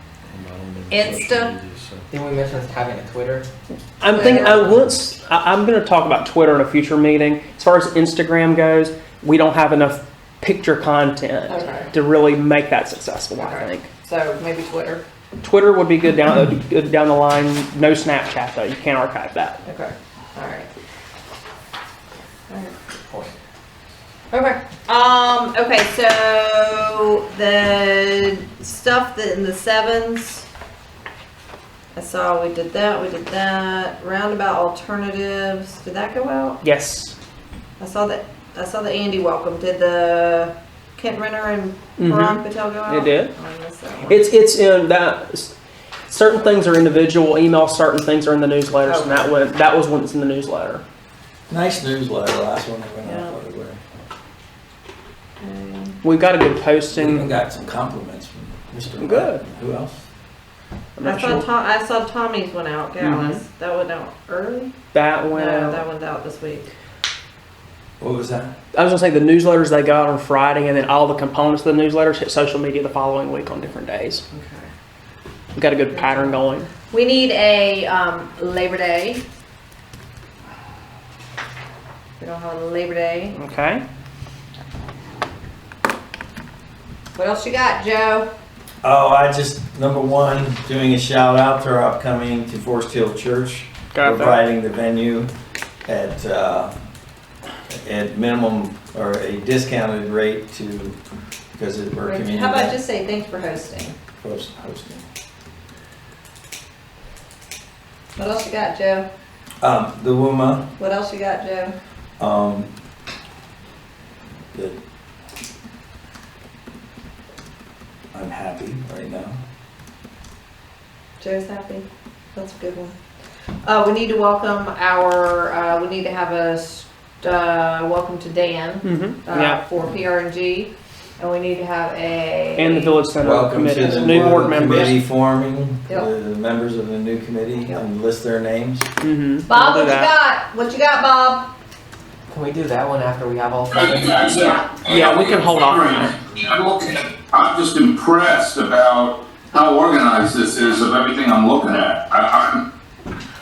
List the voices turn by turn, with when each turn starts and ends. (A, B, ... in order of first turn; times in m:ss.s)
0:00.3-0:02.0 A
0:00.9-0:01.5 B
0:02.1-0:03.5 C
0:04.0-0:13.9 D
0:04.1-0:04.8 B
0:11.5-0:11.9 B
0:13.4-0:15.0 B
0:15.4-0:19.6 D
0:19.6-0:20.7 B
0:22.5-0:23.3 B
0:24.3-0:30.5 B
0:32.0-0:36.6 B
0:36.6-0:37.1 D
0:37.8-0:44.3 B
0:42.0-0:43.3 D
0:44.0-0:45.5 D
0:46.1-0:50.8 D
0:48.8-0:49.3 B
0:51.5-0:53.8 A
0:53.0-0:53.4 B
0:55.4-0:56.0 B
0:56.0-0:57.4 D
0:56.9-1:00.1 A
0:59.0-0:59.4 D
1:01.0-1:01.4 D
1:01.0-1:04.7 B
1:03.0-1:03.4 D
1:04.9-1:05.8 D
1:05.3-1:06.7 B
1:08.0-1:08.6 A
1:08.7-1:14.2 D
1:14.3-1:14.7 B
1:15.6-1:16.7 D
1:15.9-1:19.2 B
1:22.2-1:23.4 B
1:23.3-1:23.8 D
1:27.2-1:28.3 B
1:28.8-1:35.3 A
1:33.9-1:34.4 D
1:35.9-1:36.7 A
1:37.7-1:41.0 A
1:41.6-1:42.8 A
1:42.0-1:44.0 B
1:44.2-1:45.0 A
1:48.2-1:49.1 B
1:49.6-1:50.7 A
1:50.8-1:51.8 B
1:52.2-1:52.7 A
1:58.1-1:59.4 A
2:01.2-2:03.0 B
2:03.6-2:13.0 B
2:08.8-2:09.6 D
2:12.6-2:15.0 D
2:13.2-2:18.8 A
2:19.0-2:20.1 D
2:19.5-2:21.5 B
2:22.3-2:24.3 C
2:23.7-2:32.7 E
2:24.8-2:26.2 D